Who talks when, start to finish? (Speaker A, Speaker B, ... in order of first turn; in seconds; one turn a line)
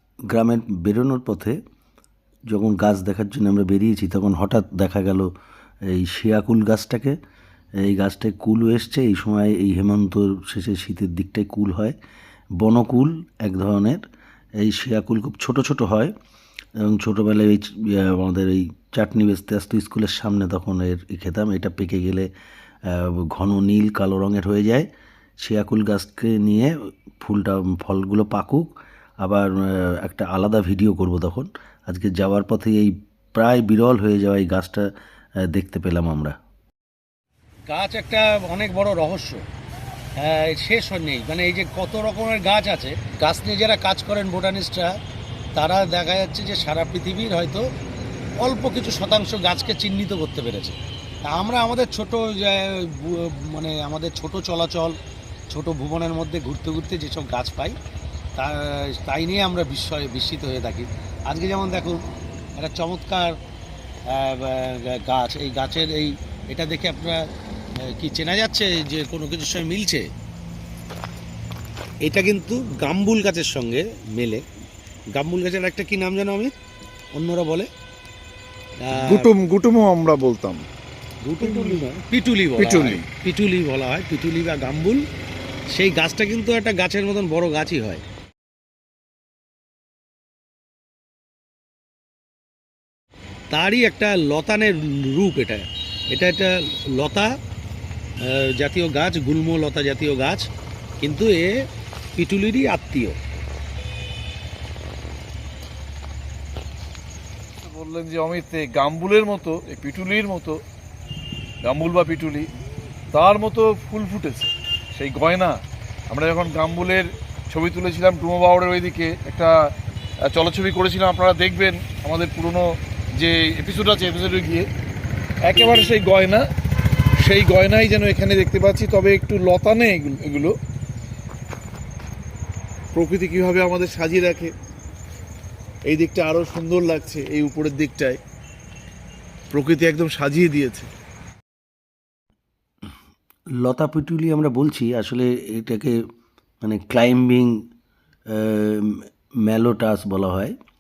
Speaker A: 0.3-1.6
Speaker A: 2.5-5.3
Speaker A: 5.9-7.2
Speaker A: 7.8-11.9
Speaker A: 12.6-14.0
Speaker A: 14.6-16.1
Speaker A: 16.8-22.3
Speaker A: 22.9-24.9
Speaker A: 25.4-28.7
Speaker A: 29.2-34.9
Speaker A: 35.5-36.4
Speaker B: 37.7-39.4
Speaker B: 40.2-44.9
Speaker B: 45.5-47.6
Speaker B: 48.4-50.8
Speaker B: 51.3-55.0
Speaker B: 55.5-57.8
Speaker B: 58.4-62.0
Speaker B: 62.5-63.4
Speaker B: 64.1-67.2
Speaker B: 67.9-70.1
Speaker B: 72.1-74.4
Speaker B: 75.2-76.5
Speaker B: 77.2-77.7
Speaker B: 78.8-79.3
Speaker C: 78.9-80.7
Speaker B: 81.2-85.0
Speaker C: 81.4-81.8
Speaker C: 82.6-83.0
Speaker B: 85.8-88.0
Speaker B: 93.5-97.3
Speaker B: 98.2-100.5
Speaker B: 101.0-101.5
Speaker B: 102.2-103.2
Speaker C: 107.6-110.6
Speaker C: 111.6-112.5
Speaker C: 113.1-119.7
Speaker C: 120.2-124.7
Speaker C: 125.4-126.5
Speaker C: 127.2-130.6
Speaker C: 132.9-134.5
Speaker C: 135.8-138.2
Speaker C: 139.5-140.9
Speaker A: 143.6-146.0
Speaker A: 146.6-147.7
Speaker A: 148.3-150.6